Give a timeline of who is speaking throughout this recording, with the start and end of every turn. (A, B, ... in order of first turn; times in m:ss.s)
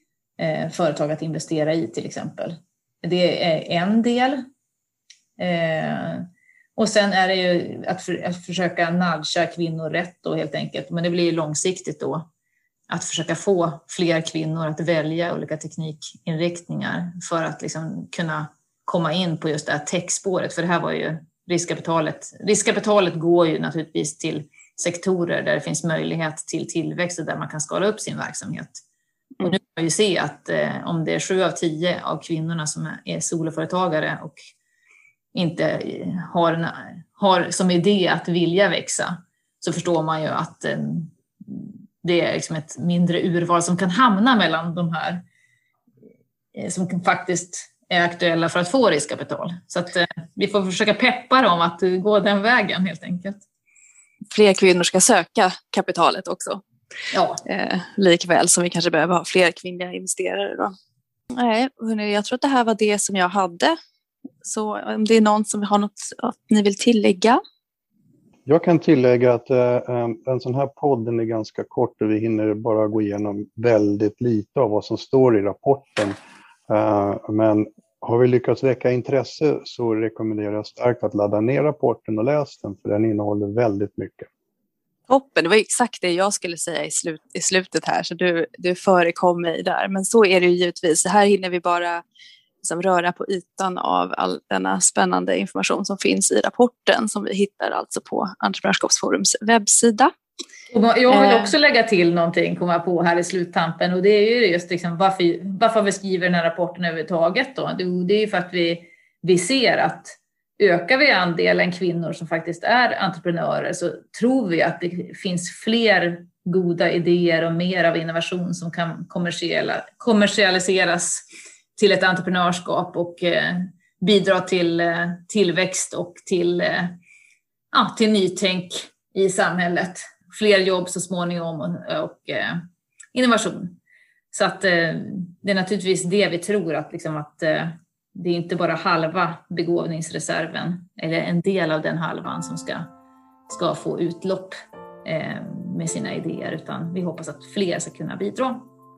0:00.4-0:04.4 A
0:05.4-0:12.3 A
0:12.9-0:28.8 A
0:29.4-0:34.4 A
0:35.3-0:45.2 A
0:46.5-0:53.4 A
0:54.3-0:56.6 B
0:57.1-0:57.4 A
0:57.4-1:00.7 B
1:01.3-1:03.8 B
1:04.4-1:07.4 B
1:08.5-1:16.2 C
1:16.7-1:24.3 C
1:25.1-1:32.0 B
1:32.6-1:40.1 B
1:40.7-2:01.2 A
2:01.8-2:07.0 A
2:07.7-2:13.8 A
2:14.3-2:22.9 A
2:23.5-2:28.7 A